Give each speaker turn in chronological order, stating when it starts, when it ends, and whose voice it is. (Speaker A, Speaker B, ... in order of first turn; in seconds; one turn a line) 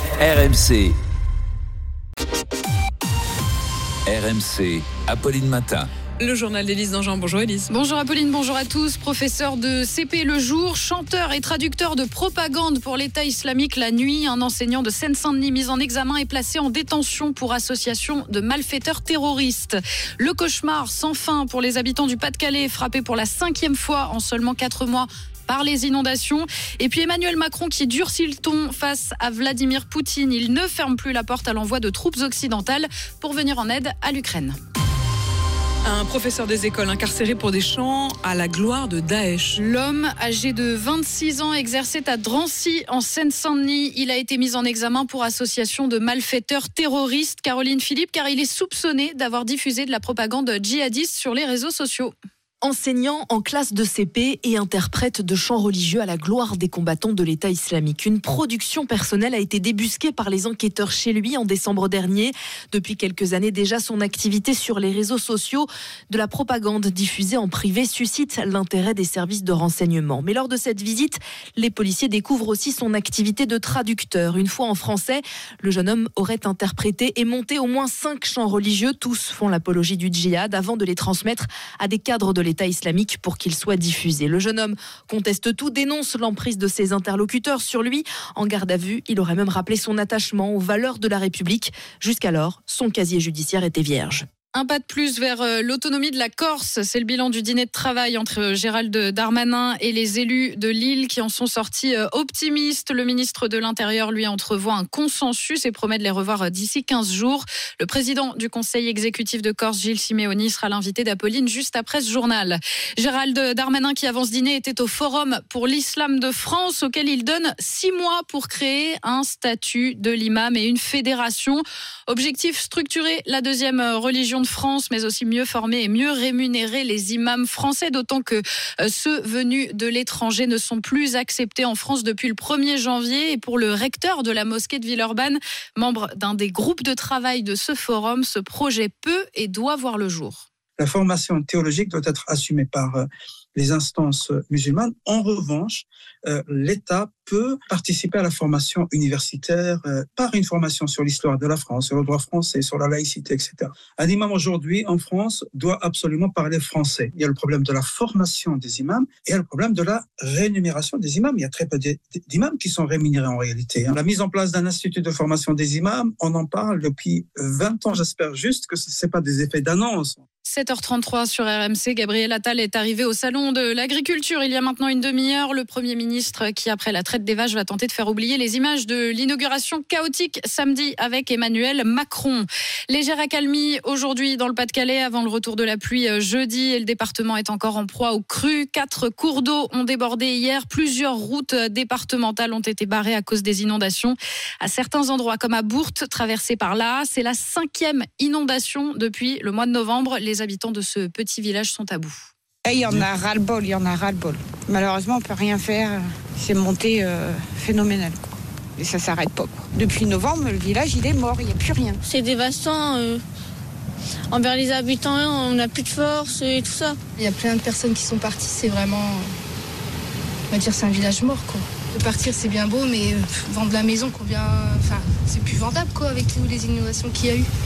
Speaker A: 0.2-0.9
Speaker A: 4.0-5.9
Speaker B: 6.2-7.7
Speaker C: 7.7-34.5
Speaker B: 35.9-39.6
Speaker C: 39.5-52.1
Speaker D: 52.6-94.2
Speaker C: 94.5-140.4
Speaker A: 140.8-170.2
Speaker C: 170.4-202.3
Speaker E: 202.6-212.0
Speaker F: 212.1-213.2
Speaker F: 214.3-217.0
Speaker G: 217.2-219.2
Speaker G: 220.5-227.5